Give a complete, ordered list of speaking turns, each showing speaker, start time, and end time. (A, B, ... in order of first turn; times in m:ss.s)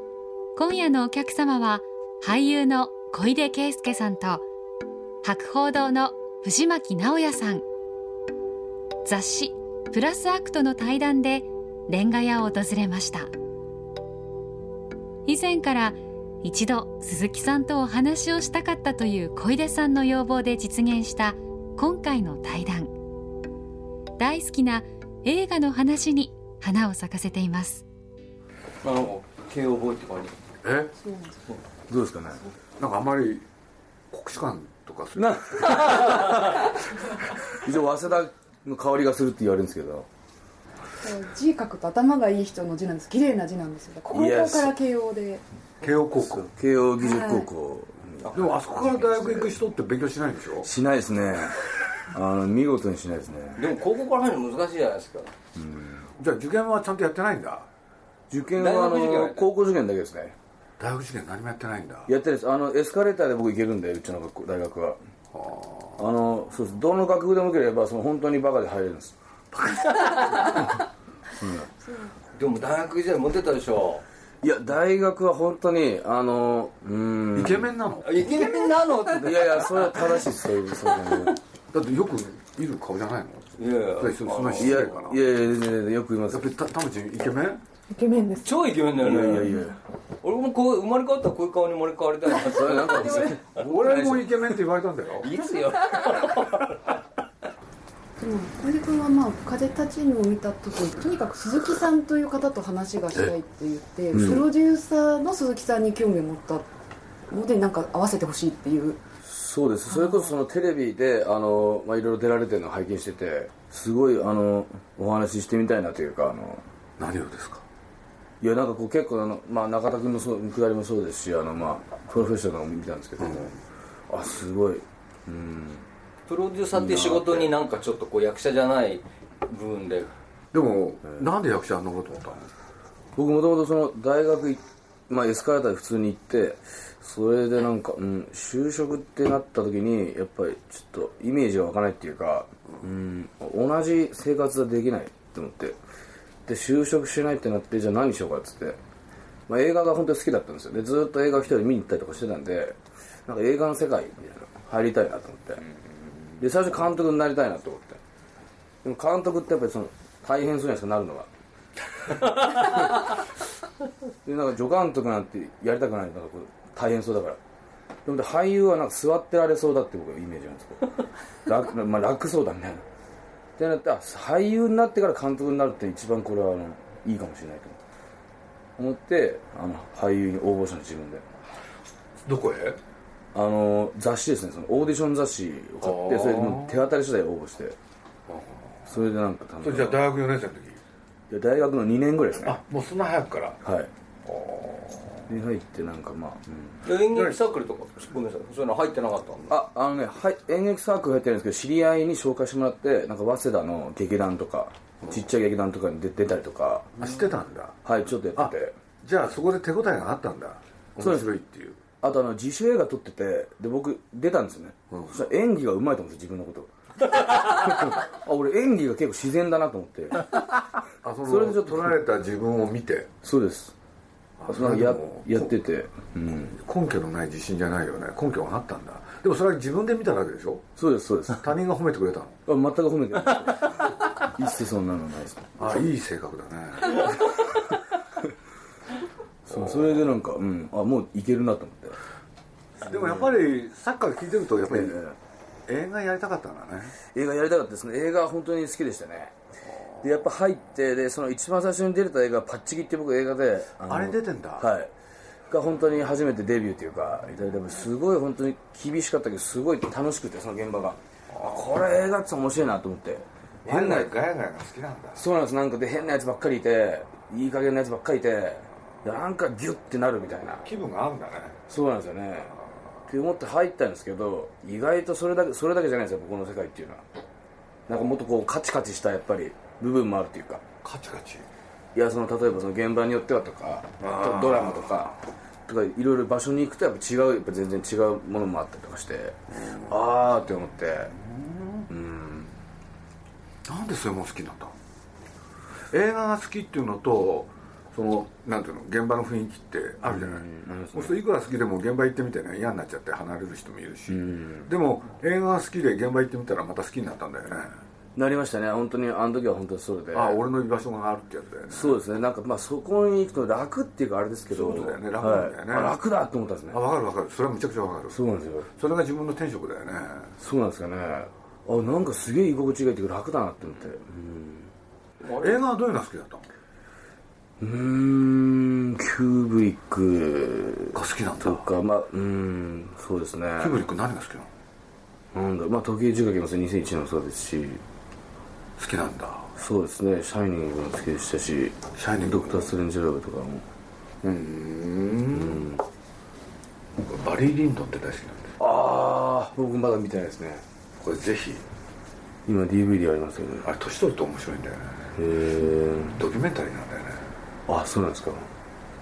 0:00.6-0:04.4 A
0:05.2-0:07.6 A
0:09.0-0:13.3 A
0:15.2-0:22.9 A
0:24.2-0:27.8 A
0:28.8-0:30.4 B
0:30.6-0:30.9 C
0:31.0-0:31.4 D
0:31.9-0:32.4 E
0:32.8-0:33.5 C
0:34.1-0:36.3 C
0:35.2-0:36.6 E
0:37.5-0:40.1 E
0:41.0-0:45.4 D
0:44.1-0:44.8 E
0:45.8-0:46.5 C
0:46.2-0:49.5 E
0:47.1-0:47.4 D
0:48.3-0:50.7 C
0:50.6-0:53.7 E
0:53.6-0:55.3 B
0:55.6-0:56.0 E
0:56.2-0:57.7 C
0:58.3-1:00.4 E
0:58.6-0:59.4 B
1:00.8-1:02.1 C
1:02.1-1:05.0 E
1:05.3-1:06.0 C
1:06.0-1:09.2 E
1:09.5-1:09.9 C
1:11.4-1:11.7 E
1:12.3-1:14.0 B
1:14.4-1:17.7 E
1:17.3-1:18.4 C
1:18.0-1:20.2 B
1:19.2-1:21.4 E
1:21.7-1:25.2 C
1:23.6-1:24.9 B
1:24.6-1:26.5 E
1:26.3-1:27.6 C
1:27.9-1:28.5 D
1:28.3-1:29.6 B
1:29.0-1:29.8 E
1:30.2-1:34.6 B
1:32.4-1:33.4 E
1:33.5-1:35.3 C
1:35.2-1:36.8 B
1:38.2-1:46.7 D
1:44.1-1:44.5 E
1:47.3-1:49.0 D
1:49.2-1:56.6 E
1:57.0-1:57.6 C
1:58.4-2:03.6 E
2:03.2-2:03.5 C
2:04.1-2:05.8 E
2:06.3-2:10.1 B
2:06.7-2:07.5 E
2:10.5-2:12.5 C
2:13.1-2:25.8 E
2:26.4-2:28.8 E
2:29.5-2:35.6 E
2:36.4-2:38.0 E
2:38.8-2:41.3 E
2:42.5-2:42.8 E
2:44.2-2:47.4 E
2:48.0-2:50.9 E
2:51.4-2:52.8 E
2:53.6-2:57.8 E
2:58.8-3:01.3 E
3:02.2-3:02.8 C
3:03.3-3:07.8 E
3:05.8-3:06.8 C
3:08.3-3:08.9 C
3:08.8-3:10.0 E
3:09.6-3:10.8 C
3:11.3-3:12.6 E
3:12.4-3:13.6 C
3:13.6-3:13.9 E
3:14.2-3:15.2 C
3:15.3-3:16.8 E
3:16.8-3:19.4 B
3:17.1-3:17.4 C
3:19.5-3:26.9 E
3:27.0-3:27.8 C
3:27.8-3:28.8 E
3:28.3-3:31.8 C
3:31.0-3:31.3 E
3:32.0-3:40.3 E
3:34.9-3:35.2 C
3:41.0-3:43.1 C
3:41.2-3:42.0 E
3:43.2-3:43.7 E
3:44.4-3:45.5 C
3:44.5-3:46.6 E
3:46.4-3:50.7 C
3:50.8-3:51.4 E
3:51.3-3:52.4 C
3:52.5-3:55.6 E
3:55.6-3:57.4 C
3:59.4-4:02.0 E
3:59.5-4:00.1 C
4:02.8-4:05.0 C
4:02.8-4:03.4 E
4:04.7-4:05.2 E
4:05.7-4:07.0 C
4:07.1-4:09.3 E
4:09.7-4:10.1 C
4:10.0-4:14.9 E
4:13.8-4:14.7 C
4:15.5-4:24.1 E
4:21.3-4:21.7 C
4:23.6-4:25.2 C
4:25.2-4:30.6 E
4:30.6-4:31.6 C
4:31.7-4:32.5 E
4:33.1-4:37.0 E
4:37.9-4:40.6 E
4:40.8-4:41.5 C
4:41.9-4:51.1 E
4:44.0-4:45.0 C
4:49.5-4:51.9 C
4:51.9-4:52.5 E
4:53.7-4:54.7 C
4:55.9-5:07.7 C
5:00.0-5:01.2 E
5:04.1-5:04.7 E
5:08.2-5:10.4 E
5:10.1-5:12.0 C
5:11.7-5:16.8 E
5:14.5-5:16.0 C
5:16.7-5:20.3 C
5:18.1-5:18.7 E
5:20.4-5:24.7 E
5:25.2-5:25.6 B
5:25.4-5:26.5 C
5:27.6-5:33.8 E
5:30.9-5:31.7 C
5:33.6-5:34.5 C
5:35.3-5:37.8 E
5:38.8-5:39.5 C
5:39.6-5:43.6 E
5:41.9-5:42.7 C
5:44.2-5:45.6 C
5:45.3-5:45.8 E
5:47.0-5:48.6 C
5:48.6-5:50.6 E
5:51.0-5:51.6 C
5:52.5-5:53.7 E
5:53.6-5:55.1 C
5:55.2-5:56.2 E
5:56.2-5:57.3 C
5:57.7-5:58.5 E